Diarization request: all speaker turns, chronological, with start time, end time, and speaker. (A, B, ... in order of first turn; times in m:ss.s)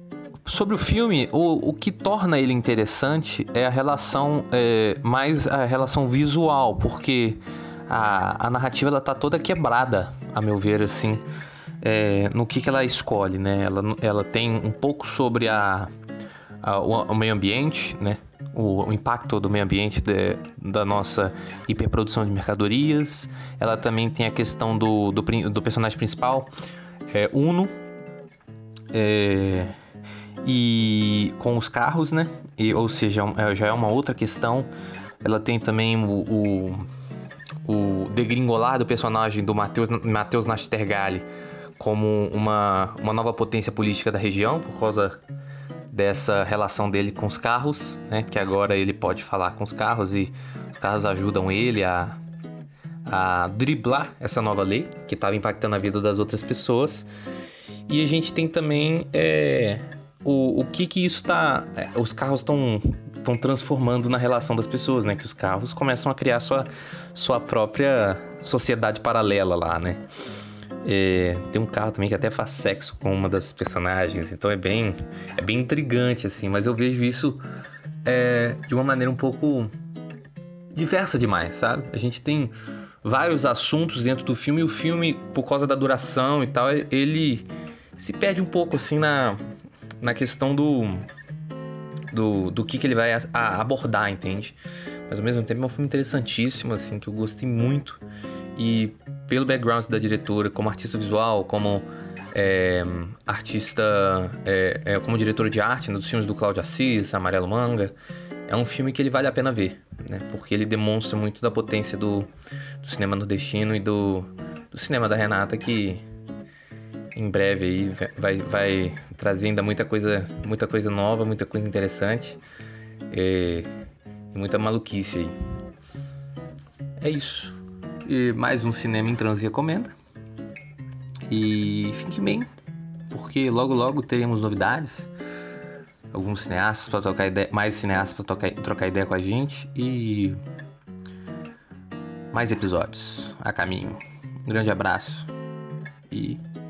0:00.4-0:11.2 A
0:11.8-0:15.9 A
0:16.6-0:26.5 A
0:27.1-0:27.7 A
0:28.9-0:29.7 A
0:30.4-0:34.7 A
0:35.2-0:36.9 A
0:37.6-0:41.3 A
0:41.8-0:45.2 A
0:45.9-0:52.2 A
0:53.1-0:57.1 A
0:57.9-1:10.0 A
1:10.8-1:17.4 A
1:18.0-1:19.7 A
1:20.7-1:29.4 A
1:30.0-1:31.1 A
1:32.1-1:34.6 A
1:35.1-1:38.0 A
1:38.6-1:48.0 A
1:48.5-1:52.3 A
1:52.8-1:56.0 A
1:57.2-2:02.4 A
2:03.1-2:03.7 A
2:04.3-2:05.4 A
2:07.0-2:09.9 A
2:11.3-2:12.5 A
2:13.1-2:15.1 A
2:16.1-2:20.4 A
2:22.3-2:25.3 A
2:26.1-2:26.4 A